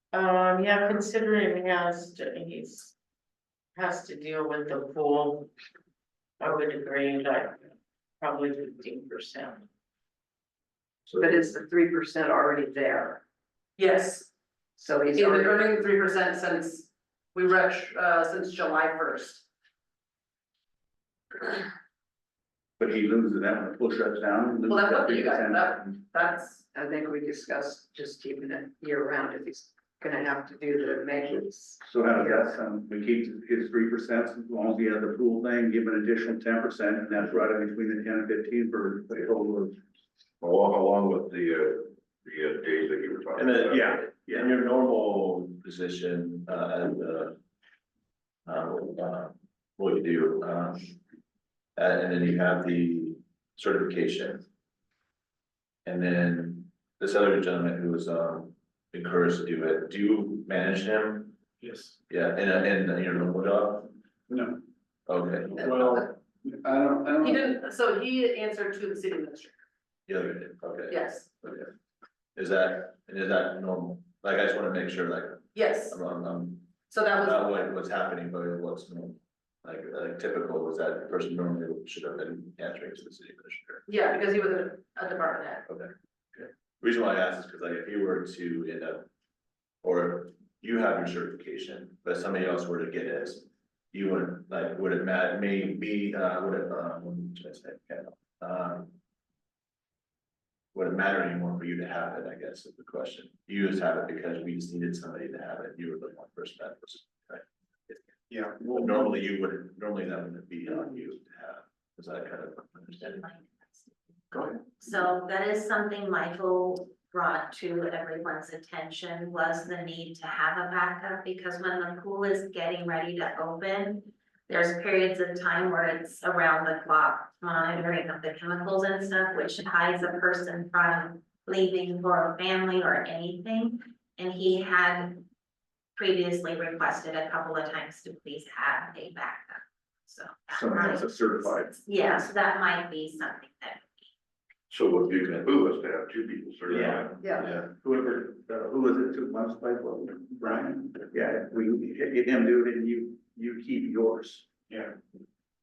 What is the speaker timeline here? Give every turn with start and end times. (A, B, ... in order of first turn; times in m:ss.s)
0:00.1-0:02.9 A
0:03.8-0:05.5 A
0:06.4-0:07.6 A
0:08.2-0:09.6 A
0:11.1-0:13.2 B
0:13.8-0:14.3 C
0:14.8-0:15.6 B
0:15.2-0:19.4 C
0:22.8-0:25.8 D
0:24.7-0:26.7 C
0:26.7-0:32.5 B
0:31.8-0:39.8 D
0:40.4-0:43.9 E
0:43.4-0:47.4 F
0:43.7-0:44.5 D
0:48.5-0:51.0 F
0:51.8-0:54.5 F
0:55.8-1:01.4 F
1:01.6-1:01.9 D
1:02.1-1:03.9 F
1:04.3-1:04.6 D
1:05.1-1:06.0 F
1:05.6-1:07.5 D
1:07.2-1:09.6 C
1:10.1-1:11.7 F
1:10.9-1:11.3 C
1:12.3-1:23.8 F
1:15.5-1:16.0 C
1:16.9-1:17.5 C
1:23.9-1:25.7 C
1:25.7-1:29.1 F
1:29.8-1:38.9 F
1:40.7-1:53.3 F
1:53.1-1:53.9 G
1:54.8-2:15.2 G
2:16.0-2:23.9 G
2:20.5-2:21.8 D
2:24.7-2:27.2 E
2:26.7-2:27.1 D
2:27.2-2:27.5 B
2:27.3-2:27.6 F
2:27.6-2:34.8 D